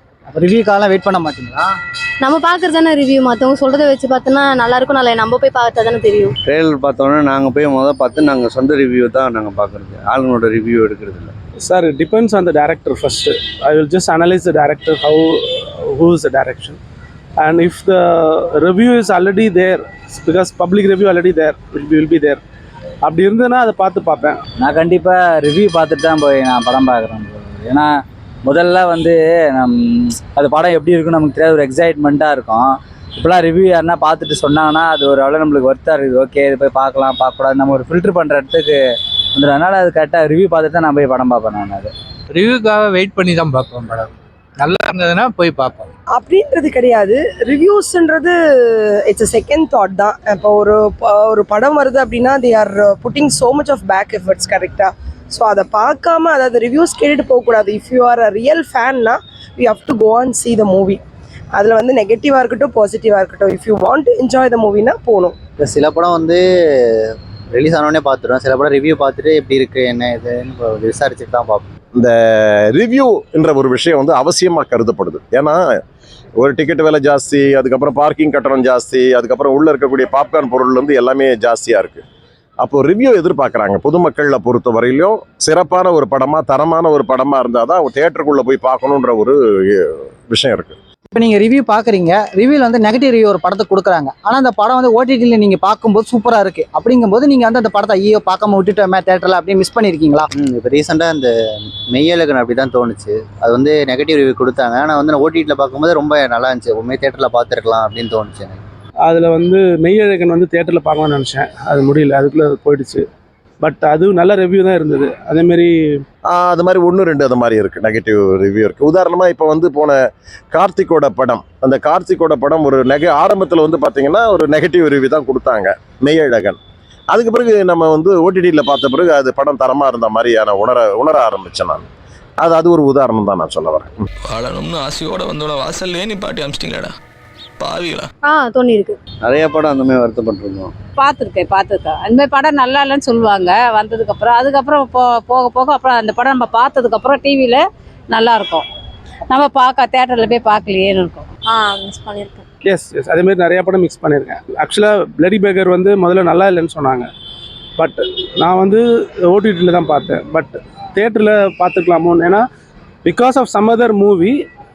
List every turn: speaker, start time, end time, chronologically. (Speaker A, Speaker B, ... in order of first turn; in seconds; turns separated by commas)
Speaker A: 0.3-1.7, Speaker B: 2.2-6.3, Speaker C: 6.5-11.3, Speaker D: 11.7-16.8, Speaker D: 17.4-22.4, Speaker D: 23.1-24.4, Speaker E: 24.6-27.9, Speaker E: 28.4-38.8, Speaker E: 39.3-41.9, Speaker F: 42.3-45.9, Speaker G: 46.1-61.0, Speaker G: 61.5-65.4, Speaker H: 65.7-66.4, Speaker H: 67.6-71.7, Speaker I: 72.8-75.6, Speaker I: 76.4-82.0, Speaker I: 82.6-90.8, Speaker A: 91.1-100.3, Speaker H: 100.3-101.3, Speaker H: 102.0-108.6, Speaker D: 109.1-113.0, Speaker D: 113.6-115.7, Speaker I: 116.3-120.0, Speaker I: 120.5-126.6, Speaker I: 127.1-131.9, Speaker I: 132.4-134.0, Speaker J: 134.3-136.9, Speaker J: 137.6-138.1, Speaker B: 138.3-139.0, Speaker C: 139.3-140.7, Speaker K: 141.0-148.7, Speaker K: 149.3-151.3, Speaker B: 151.5-152.4, Speaker D: 152.7-157.1, Speaker D: 157.8-162.4, Speaker D: 163.1-164.4